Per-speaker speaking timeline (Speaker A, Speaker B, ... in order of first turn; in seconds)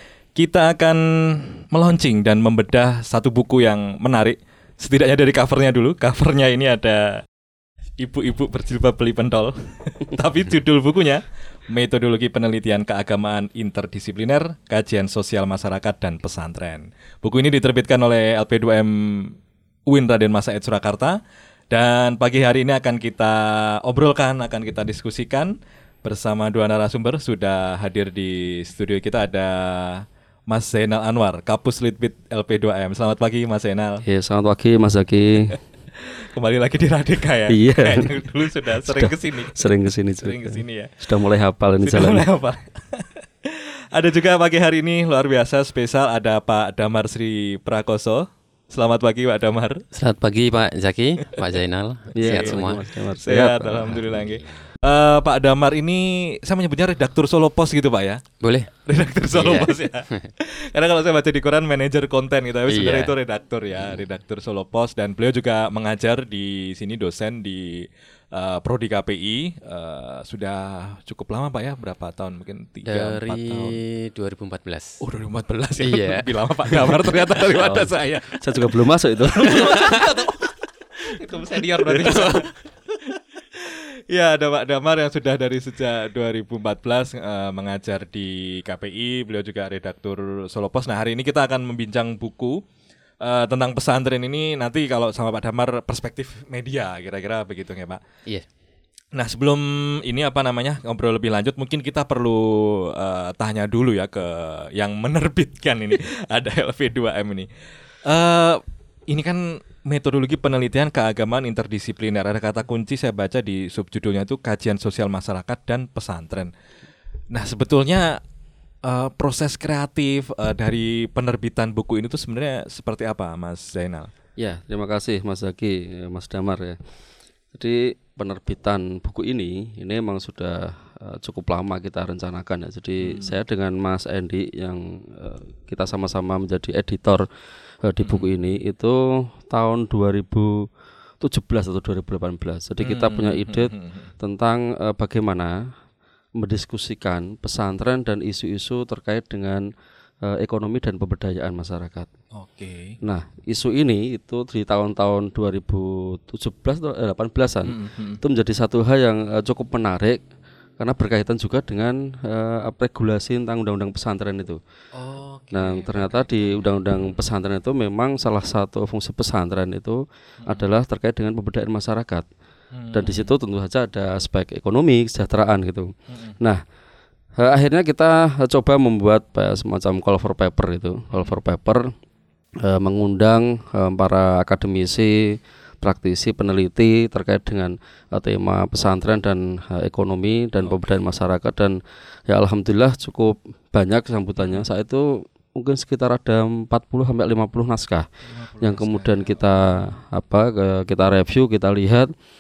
Speaker A: 0.3-7.2, 8.0-34.0, 35.5-40.9, 41.8-49.8, 52.2-58.2, 58.9-73.8, 75.0-92.6, 93.2-98.0, 99.1-116.5, 117.3-118.2, 118.8-124.1, 133.0-133.4, 138.0-138.3, 142.8-144.1, 152.3-153.0, 157.7-158.2, 164.9-167.2, 172.7-173.3, 176.1-176.3, 190.6-190.9, 194.4-194.7, 198.2-199.9
Speaker B: 34.0-35.5, 37.5-42.3, 52.2-54.2, 78.4-79.6, 124.4-126.8, 127.5-137.2, 137.8-140.7, 141.2-145.6, 146.4-149.6, 150.2-152.1, 153.0-160.2, 160.8-164.6, 165.5-172.3, 172.9-176.6, 177.4-181.9, 182.6-191.8, 192.3-198.1, 198.6-202.1
Speaker C: 49.9-52.8, 58.4-58.7, 59.3-60.3, 62.7-63.1, 72.9-75.0, 75.8-77.9, 79.5-80.1, 81.9-82.5